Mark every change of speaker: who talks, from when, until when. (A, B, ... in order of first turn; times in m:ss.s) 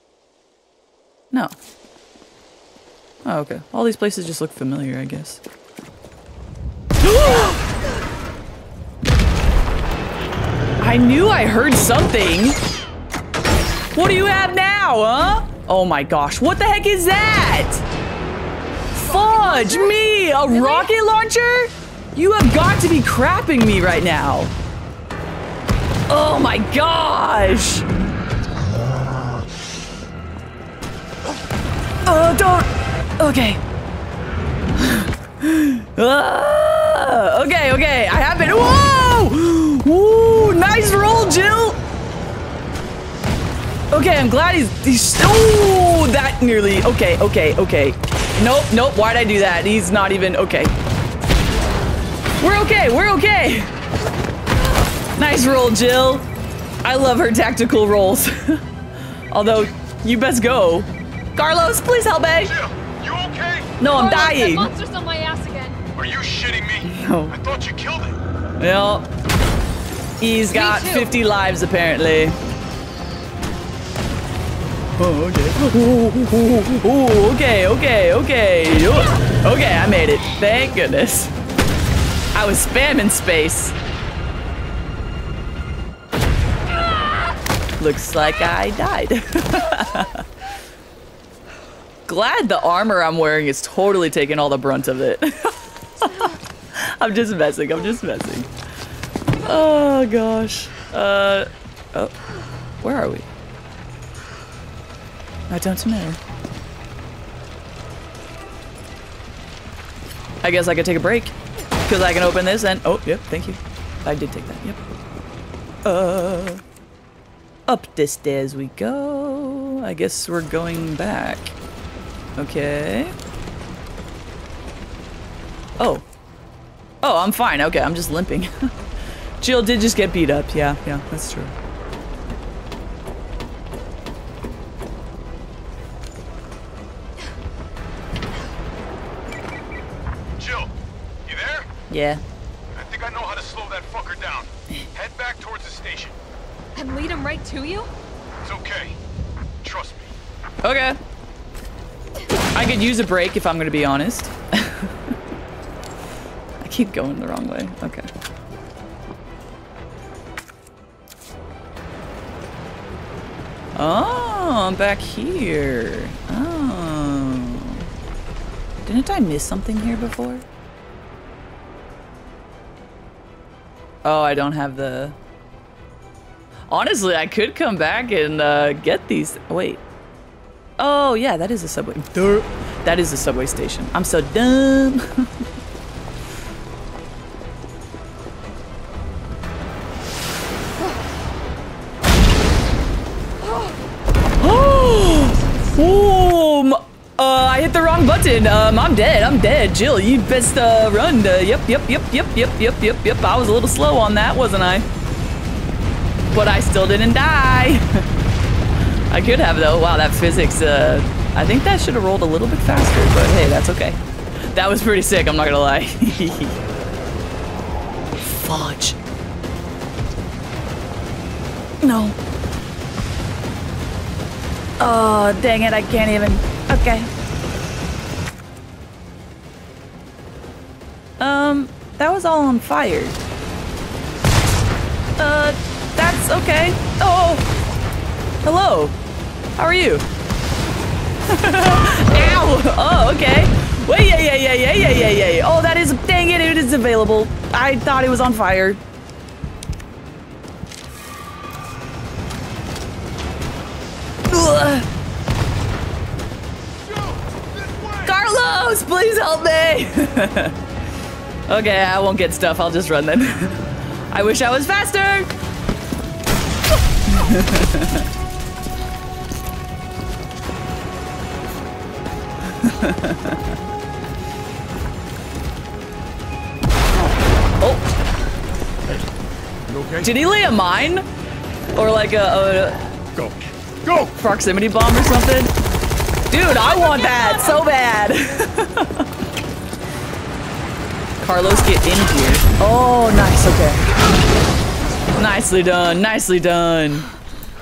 0:03.2-0:05.4 A
0:07.0-0:07.6 A
0:10.8-0:12.6 A
0:13.9-0:17.8 A
0:18.9-0:20.9 B
0:18.9-0:24.5 A
0:26.1-0:27.8 A
0:32.0-0:33.6 A
0:34.8-0:41.8 A
0:43.9-0:50.7 A
0:52.4-0:53.7 A
0:55.2-0:56.3 A
0:56.8-0:58.6 A
0:59.3-1:02.5 A
1:02.4-1:03.7 C
1:03.8-1:04.7 A
1:03.8-1:05.8 B
1:05.9-1:08.2 C
1:06.8-1:07.3 A
1:08.6-1:09.1 A
1:10.2-1:12.4 A
1:10.5-1:11.1 B
1:15.0-1:21.3 A
1:22.3-1:23.8 A
1:27.8-1:30.2 A
1:32.1-1:38.5 A
1:39.4-1:42.1 A
1:42.8-1:43.3 A
1:45.5-1:46.2 A
1:50.4-1:54.8 A
1:55.8-1:56.6 A
1:57.7-2:01.5 A
2:02.4-2:03.1 A
2:05.8-2:06.0 A
2:07.0-2:08.7 A
2:09.4-2:11.5 A
2:20.4-2:20.7 C
2:21.2-2:21.7 C
2:21.9-2:22.2 A
2:22.7-2:26.2 C
2:26.7-2:27.9 B
2:28.4-2:29.0 C
2:29.6-2:30.1 C
2:30.6-2:31.0 A
2:32.5-2:34.9 A
2:36.6-2:38.1 A
2:43.8-2:47.9 A
2:48.8-2:50.4 A
2:54.0-2:55.1 A
2:56.7-2:59.8 A
3:00.8-3:05.3 A
3:14.4-3:24.8 A
3:26.3-3:28.0 A
3:29.1-3:34.0 A
3:34.5-3:36.5 A
3:38.2-3:39.0 A
3:41.8-3:42.2 A
3:44.8-3:47.1 A
3:51.2-3:53.2 A
3:55.2-3:57.4 A
3:58.4-3:58.9 A
3:59.6-4:00.0 A
4:01.3-4:08.8 A
4:14.3-4:14.9 A
4:18.0-4:20.6 A
4:21.5-4:23.6 A
4:24.1-4:25.3 A
4:27.1-4:28.0 A
4:32.6-4:33.4 A
4:39.7-4:40.1 C
4:40.0-4:41.0 A
4:41.7-4:42.8 A
4:43.1-4:44.1 C
4:44.2-4:45.5 A
4:46.3-4:49.1 A
4:51.2-4:53.8 A
4:55.2-4:57.1 A